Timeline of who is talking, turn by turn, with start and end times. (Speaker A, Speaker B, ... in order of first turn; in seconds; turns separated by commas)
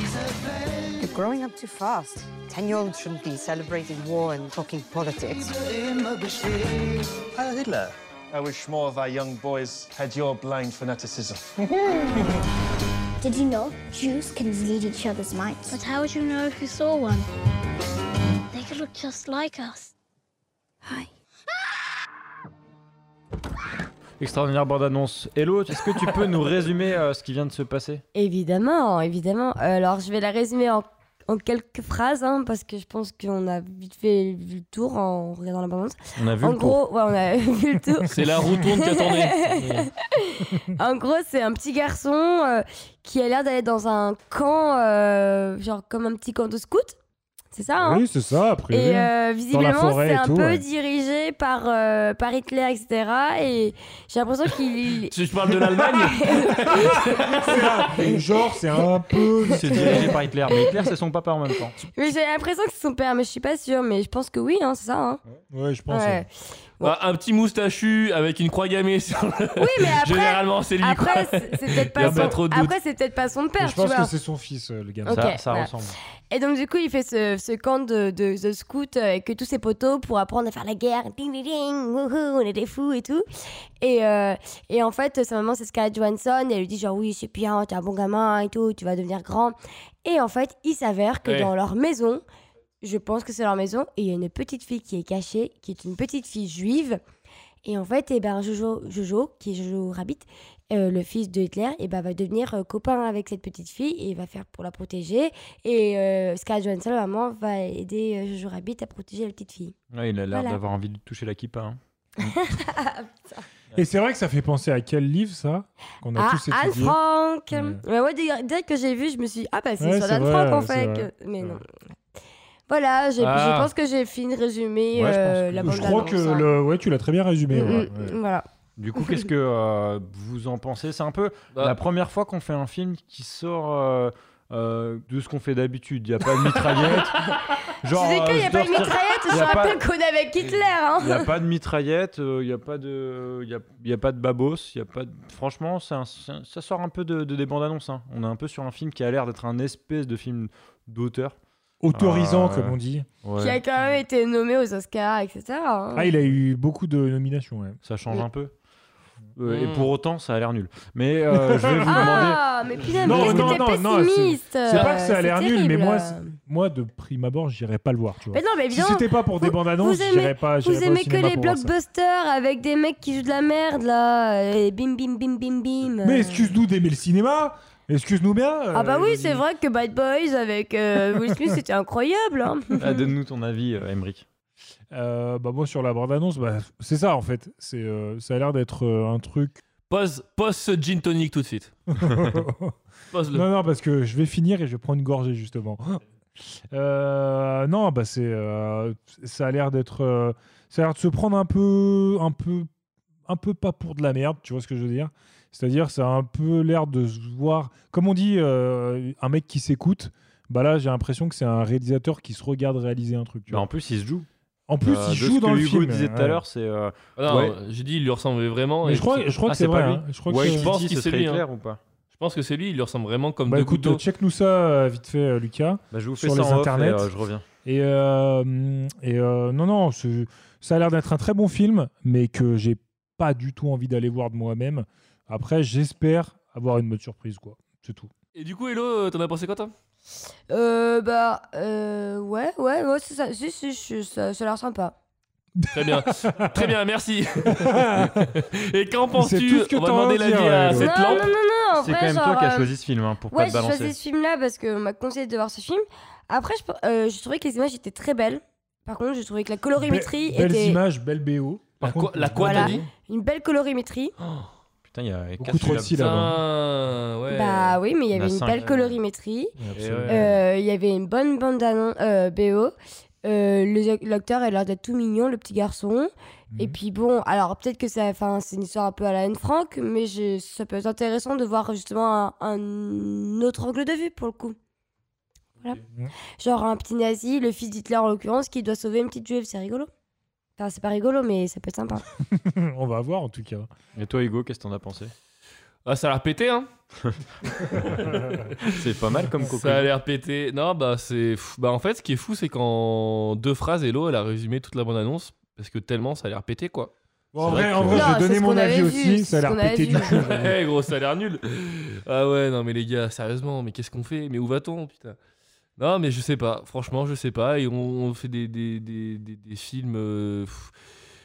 Speaker A: 1.0-5.6, Speaker B: 6.4-11.9, Speaker C: 13.2-17.3, Speaker C: 18.5-19.9, Speaker D: 24.2-28.0, Speaker E: 28.1-47.0, Speaker D: 36.2-36.8, Speaker F: 38.1-39.9, Speaker E: 47.5-48.0, Speaker G: 47.8-50.6, Speaker E: 48.7-55.1, Speaker F: 55.1-57.6, Speaker E: 56.1-57.1, Speaker G: 56.2-60.0, Speaker E: 59.2-60.6, Speaker D: 59.5-61.8, Speaker E: 61.8-65.2, Speaker G: 65.5-66.2, Speaker E: 65.9-66.3, Speaker F: 66.8-72.7, Speaker E: 69.6-74.1, Speaker G: 72.0-72.4, Speaker G: 73.6-75.4, Speaker E: 75.1-75.7, Speaker D: 75.1-76.0, Speaker E: 76.3-83.2, Speaker E: 83.8-92.2, Speaker F: 91.2-91.5, Speaker E: 92.8-97.0, Speaker E: 97.6-109.8, Speaker D: 109.9-112.3, Speaker E: 110.3-110.6, Speaker E: 112.2-113.5, Speaker G: 113.8-117.0, Speaker E: 116.2-121.6, Speaker G: 117.5-117.8, Speaker G: 119.8-121.6, Speaker E: 122.7-126.5, Speaker F: 123.2-123.7, Speaker D: 124.9-126.1, Speaker G: 125.6-128.2, Speaker E: 127.5-128.4, Speaker D: 128.8-139.8, Speaker E: 137.9-141.3, Speaker D: 141.0-151.4, Speaker G: 151.8-153.1, Speaker D: 151.9-153.6, Speaker E: 153.4-156.1, Speaker G: 156.0-157.8, Speaker D: 157.8-158.5, Speaker D: 159.4-163.6, Speaker F: 159.5-159.9, Speaker G: 161.3-162.3, Speaker E: 161.9-166.4, Speaker G: 163.0-171.7, Speaker E: 168.3-176.6, Speaker G: 176.0-179.4, Speaker E: 178.7-182.9, Speaker D: 182.8-184.2, Speaker G: 184.9-189.6, Speaker F: 189.9-191.8, Speaker G: 191.9-192.8, Speaker F: 193.1-193.5, Speaker G: 193.3-196.0, Speaker G: 196.7-202.7, Speaker G: 203.3-213.7, Speaker D: 213.5-214.3, Speaker G: 214.7-216.4, Speaker D: 214.8-217.6, Speaker F: 217.2-219.3, Speaker G: 218.8-220.7, Speaker D: 219.5-221.8, Speaker F: 220.3-221.4, Speaker F: 222.1-224.0, Speaker G: 223.5-227.1, Speaker D: 225.9-227.4, Speaker G: 227.7-238.1, Speaker F: 238.3-239.7, Speaker E: 240.5-244.9, Speaker G: 245.6-246.7, Speaker F: 245.7-251.3, Speaker G: 247.4-248.4, Speaker G: 249.1-251.2, Speaker E: 250.7-252.7, Speaker D: 251.8-254.0, Speaker E: 253.3-260.8, Speaker G: 259.8-262.9, Speaker F: 261.8-262.9, Speaker E: 262.4-264.1, Speaker F: 264.2-264.5, Speaker D: 264.8-266.3, Speaker G: 265.4-266.4, Speaker F: 265.9-267.8, Speaker E: 267.3-269.5, Speaker D: 268.1-269.0, Speaker G: 269.6-270.4, Speaker F: 269.7-270.3, Speaker E: 270.1-284.6, Speaker E: 286.4-289.9, Speaker E: 290.6-292.1, Speaker G: 292.3-293.7, Speaker D: 294.0-295.1, Speaker F: 295.9-296.7, Speaker D: 298.6-299.9, Speaker F: 299.5-306.9, Speaker G: 307.3-310.6, Speaker D: 307.4-308.1, Speaker E: 307.9-310.2, Speaker F: 310.1-315.2, Speaker F: 315.8-320.7